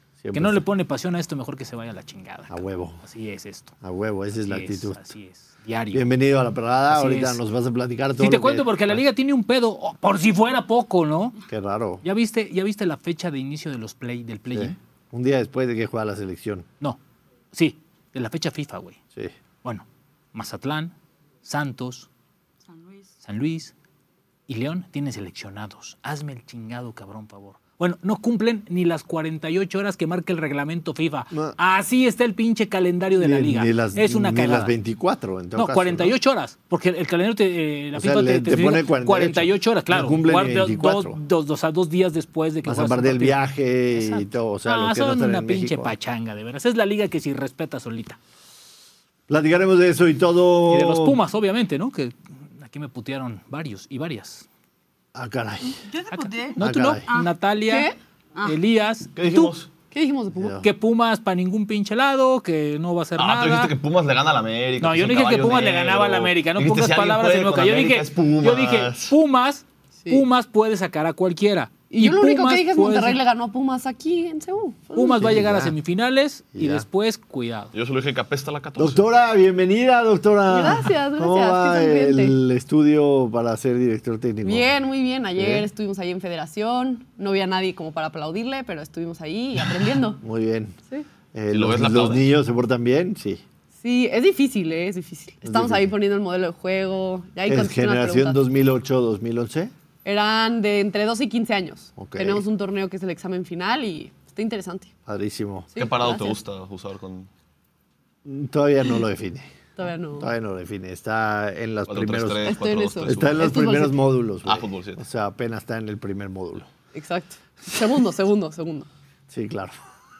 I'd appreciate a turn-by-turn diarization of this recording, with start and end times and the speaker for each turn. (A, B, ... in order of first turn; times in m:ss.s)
0:00.2-0:00.6 A
0:00.3-0:03.7 B
0:02.5-0:03.0 A
0:03.8-0:05.1 A
0:04.3-0:06.1 B
0:05.9-0:09.0 A
0:06.9-0:07.4 B
0:08.2-0:11.4 B
0:11.5-0:12.0 A
0:12.0-0:14.7 B
0:14.5-0:16.7 A
0:17.5-0:19.0 B
0:19.6-0:22.1 B
0:22.7-0:23.1 C
0:23.2-0:23.7 B
0:24.5-0:34.7 B
0:31.3-0:31.6 A
0:33.2-0:36.1 A
0:35.5-0:43.4 B
0:37.9-0:41.2 A
0:42.6-0:45.9 A
0:43.9-0:48.2 B
0:49.3-0:51.2 A
0:50.7-0:54.4 B
0:55.1-0:55.8 A
0:55.9-0:57.3 C
0:56.1-0:57.9 B
0:56.6-0:57.0 A
0:57.7-0:58.0 D
0:58.4-0:59.2 B
0:59.2-0:59.7 E
0:59.9-1:00.6 D
1:00.3-1:00.7 A
1:00.6-1:03.7 B
1:03.2-1:09.1 E
1:04.8-1:13.2 B
1:11.9-1:15.2 D
1:14.9-1:17.7 B
1:15.2-1:15.7 A
1:16.5-1:16.9 A
1:17.7-1:19.0 E
1:18.8-1:24.6 A
1:20.5-1:22.3 D
1:24.4-1:30.2 D
1:25.4-1:25.7 A
1:30.2-1:30.8 A
1:31.3-1:33.4 A
1:31.5-1:32.2 E
1:33.8-1:38.4 D
1:35.4-1:35.9 A
1:37.4-1:39.7 A
1:40.0-1:44.9 D
1:42.0-1:42.4 A
1:45.1-1:45.7 A
1:45.7-1:46.4 D
1:45.8-1:47.3 E
1:48.2-1:49.5 A
1:49.8-1:50.3 D
1:50.2-1:56.7 A
1:51.9-1:53.6 E
1:52.4-1:54.0 D
1:54.4-1:55.0 E
1:56.9-1:58.9 D
1:59.3-1:59.7 A